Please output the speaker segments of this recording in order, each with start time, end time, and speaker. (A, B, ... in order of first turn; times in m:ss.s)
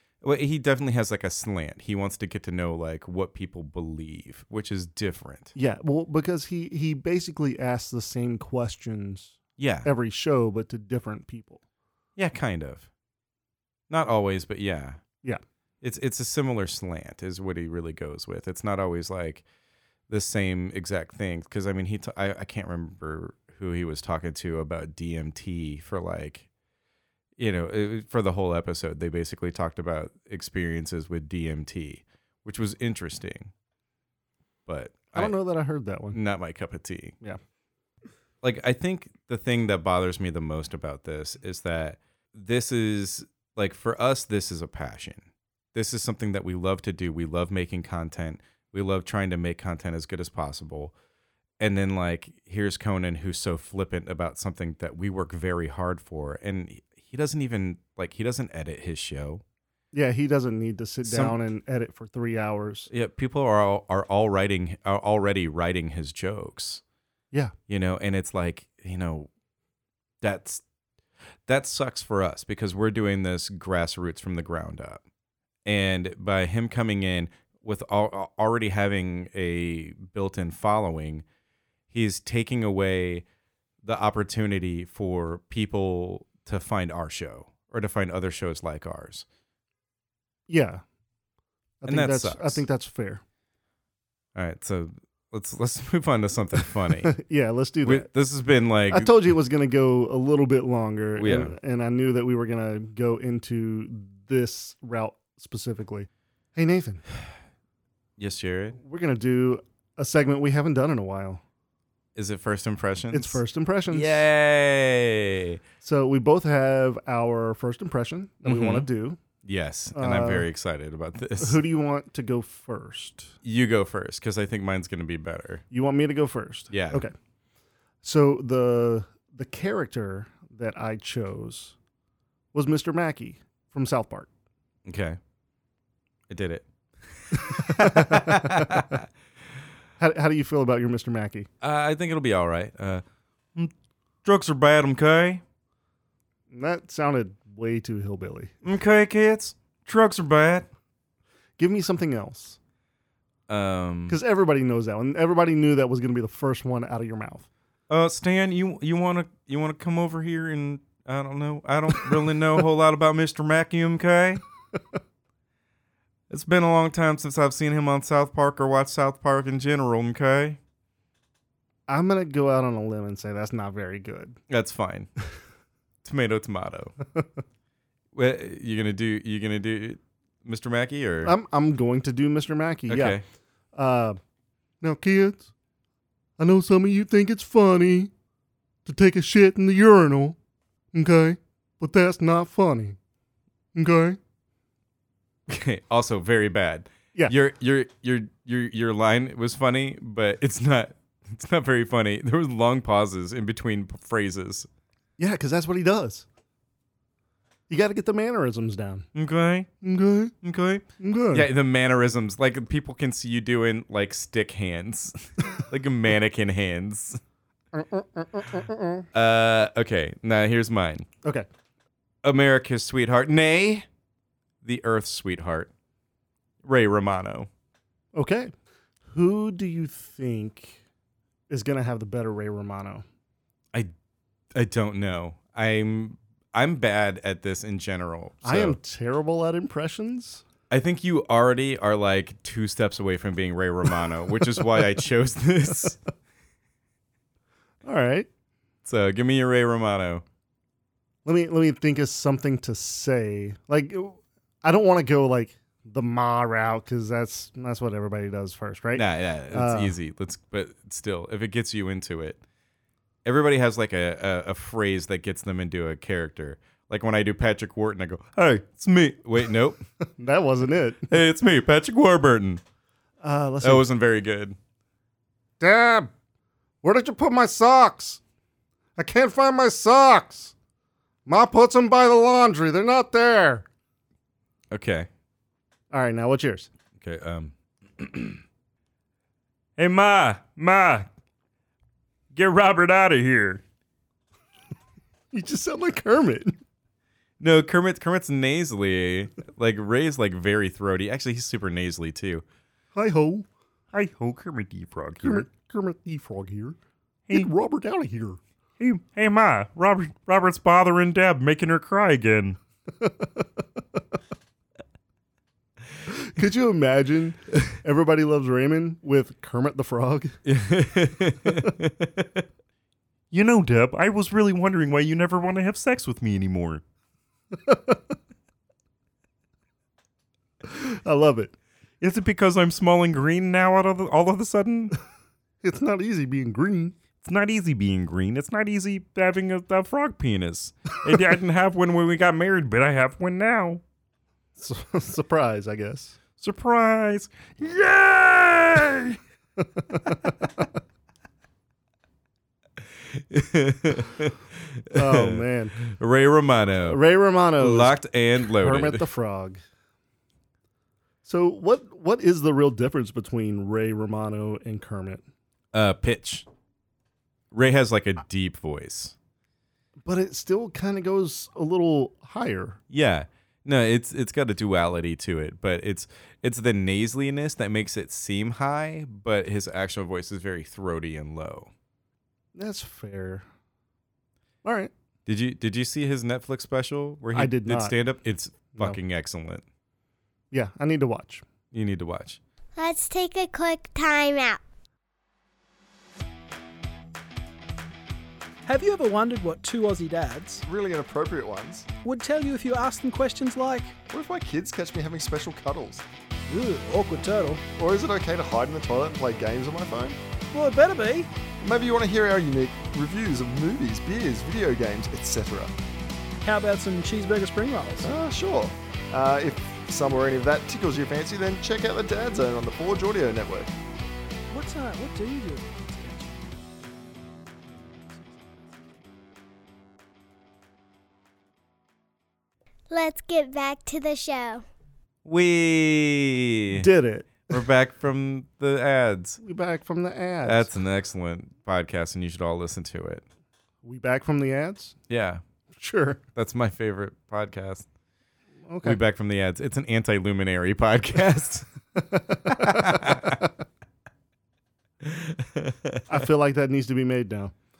0:00.2-0:05.5 A
0:05.6-0:11.6 B
0:09.6-0:09.9 A
0:12.2-0:12.9 A
0:13.9-0:15.0 A
0:15.8-0:19.4 A
0:20.1-0:26.4 A
0:27.4-0:33.5 A
0:34.6-0:35.3 A
0:35.1-0:36.2 B
0:36.1-0:37.1 A
0:38.4-0:45.2 A
0:45.7-0:50.9 A
0:51.6-0:59.4 A
0:59.9-1:02.9 B
1:01.0-1:01.4 A
1:02.9-1:06.8 A
1:07.7-1:09.3 A
1:10.2-1:10.6 A
1:11.5-1:15.0 A
1:15.6-1:21.2 A
1:21.9-1:23.2 A
1:23.8-1:29.2 A
1:30.5-1:30.8 B
1:31.8-1:33.2 B
1:31.8-1:32.6 A
1:34.3-1:37.1 A
1:37.0-1:38.1 B
1:37.8-1:39.2 A
1:38.9-1:47.0 B
1:41.2-1:41.5 A
1:48.2-1:48.8 A
1:48.8-1:51.4 B
1:52.2-1:55.6 A
1:53.1-1:54.2 B
1:55.8-1:59.2 B
1:58.4-1:58.9 A
1:59.4-2:01.6 A
1:59.9-2:00.5 B
2:01.4-2:03.3 B
2:03.4-2:05.6 A
2:05.7-2:07.1 B
2:06.7-2:07.0 A
2:08.0-2:11.7 B
2:12.5-2:14.3 B
2:14.8-2:15.2 A
2:16.3-2:16.6 A
2:17.3-2:19.0 A
2:17.7-2:18.8 B
2:20.0-2:21.5 B
2:21.6-2:23.0 A
2:24.2-2:25.4 A
2:26.5-2:28.5 B
2:28.6-2:30.7 A
2:31.6-2:32.6 B
2:33.5-2:34.2 A
2:34.1-2:37.4 B
2:37.9-2:44.4 A
2:46.3-2:50.6 A
2:51.9-2:54.4 B
2:54.5-2:55.1 A
2:56.0-2:56.9 A
2:58.1-3:01.3 A
3:01.2-3:03.2 B
3:02.9-3:03.2 A
3:03.7-3:04.2 B
3:04.8-3:05.5 B
3:06.4-3:08.1 B
3:08.8-3:10.4 B
3:10.9-3:13.0 B
3:13.7-3:14.2 B
3:15.5-3:24.7 A
3:25.2-3:26.2 B
3:27.7-3:29.1 B
3:29.1-3:29.7 A
3:29.8-3:30.3 B
3:30.4-3:37.2 A
3:31.0-3:31.5 B
3:37.7-3:39.0 B
3:39.1-3:41.1 A
3:42.2-3:43.8 A
3:44.6-3:45.7 A
3:46.6-3:47.5 A
3:48.1-3:48.5 B
3:49.1-3:50.8 B
3:51.5-3:53.0 B
3:54.5-3:58.8 A
3:58.4-4:00.4 B
4:00.7-4:06.0 A
4:07.8-4:08.3 B
4:08.8-4:10.2 A
4:11.2-4:20.0 B
4:18.9-4:22.4 A
4:23.2-4:29.8 A
4:30.2-4:31.1 B
4:31.1-4:32.6 A
4:33.2-4:33.8 B
4:33.6-4:34.6 A
4:35.6-4:36.1 B
4:36.8-4:38.2 B
4:39.0-4:40.5 B
4:41.2-4:43.6 B
4:44.7-4:45.1 A
4:45.9-4:46.7 B
4:47.0-4:48.4 A
4:49.8-4:51.1 C
4:52.3-4:53.6 C
4:55.3-4:56.6 B
4:57.4-5:02.4 A
5:02.9-5:03.5 B
5:03.9-5:05.5 C
5:05.2-5:06.8 B
5:07.3-5:08.4 B
5:08.8-5:12.6 C
5:13.0-5:13.4 B
5:16.1-5:20.4 B
5:20.4-5:22.4 A
5:23.3-5:26.8 C
5:27.6-5:28.0 B
5:30.6-5:31.6 B
5:32.0-5:34.9 A
5:35.6-5:36.9 B
5:37.3-5:38.1 C
5:38.0-5:42.4 A
5:38.7-5:40.1 C
5:40.9-5:43.8 C
5:44.6-5:46.2 B
5:46.4-5:48.8 A
5:49.9-5:50.2 B
5:53.1-5:57.0 A
5:54.9-5:55.8 B
5:56.8-5:58.0 B
5:57.6-5:59.0 A
5:58.6-5:59.6 B
6:01.2-6:05.2 B
6:05.7-6:06.5 A
6:07.5-6:09.1 A
6:10.0-6:12.8 B
6:12.9-6:21.7 A
6:22.5-6:23.4 B
6:24.6-6:24.9 B
6:25.2-6:29.6 A
6:27.3-6:27.9 B
6:30.5-6:31.4 B
6:31.7-6:32.4 A
6:32.8-6:34.6 D
6:38.6-6:40.6 E
6:40.6-6:41.9 F
6:42.0-6:43.9 E
6:44.1-6:46.0 F
6:46.5-6:47.6 E
6:47.8-6:50.2 F
6:50.5-6:51.3 E
6:51.6-6:55.7 F
6:56.4-6:58.1 E
6:58.0-7:03.7 F
7:04.5-7:06.6 E
7:12.9-7:14.6 D
7:15.2-7:16.9 A
7:16.7-7:17.6 B
7:17.5-7:19.4 A
7:19.4-7:20.7 B
7:20.4-7:23.2 A
7:23.8-7:24.9 B
7:25.1-7:25.4 A
7:25.8-7:26.2 B
7:26.4-7:27.9 A
7:28.7-7:29.0 B
7:28.8-7:31.7 A
7:32.0-7:33.3 B
7:32.4-7:33.4 A
7:35.0-7:36.0 A
7:36.1-7:37.5 B